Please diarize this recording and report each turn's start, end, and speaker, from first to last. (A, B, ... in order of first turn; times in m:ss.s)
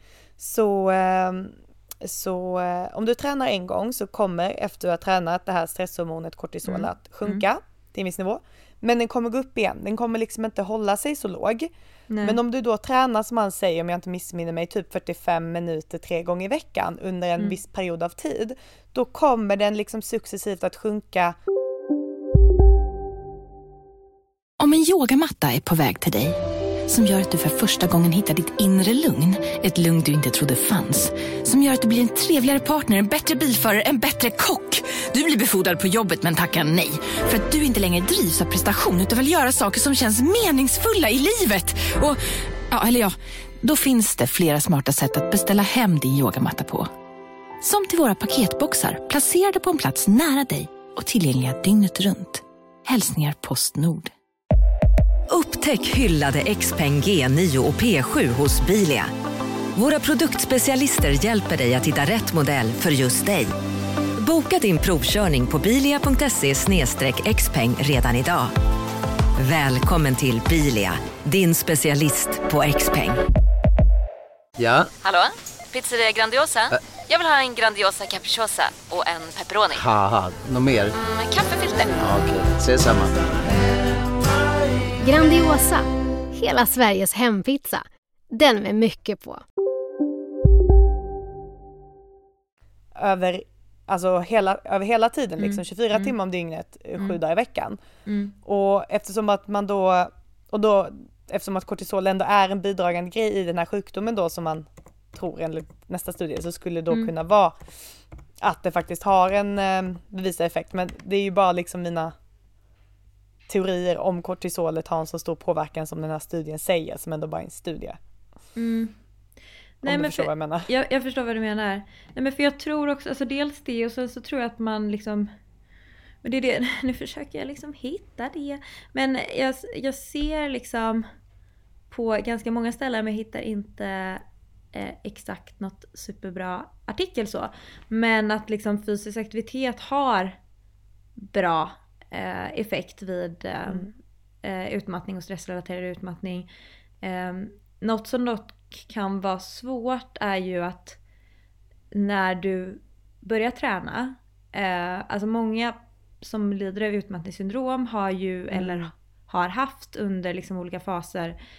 0:00.4-0:11.7 A
0:06.6-0:07.4 B
0:12.1-0:12.4 B
0:12.2-0:21.4 A
0:24.6-0:42.2 C
0:42.7-0:46.9 C
0:47.6-0:54.1 C
0:55.3-0:59.1 D
0:59.7-1:03.5 D
1:04.2-1:08.5 D
1:09.4-1:13.2 D
1:14.6-1:14.9 E
1:15.0-1:19.8 F
1:19.8-1:20.9 E
1:20.9-1:22.1 F
1:22.0-1:23.2 E
1:25.0-1:29.4 G
1:32.9-1:37.8 A
1:35.4-1:36.1 B
1:38.0-1:38.3 B
1:38.4-1:47.6 A
1:48.4-1:52.1 A
1:53.5-1:58.0 A
1:58.6-1:58.9 B
1:59.8-2:05.3 B
1:59.8-2:00.7 A
2:06.2-2:11.0 B
2:11.9-2:20.4 B
2:21.2-2:23.9 B
2:24.4-2:26.5 B
2:27.0-2:31.0 B
2:31.9-2:41.4 B
2:38.5-2:38.9 A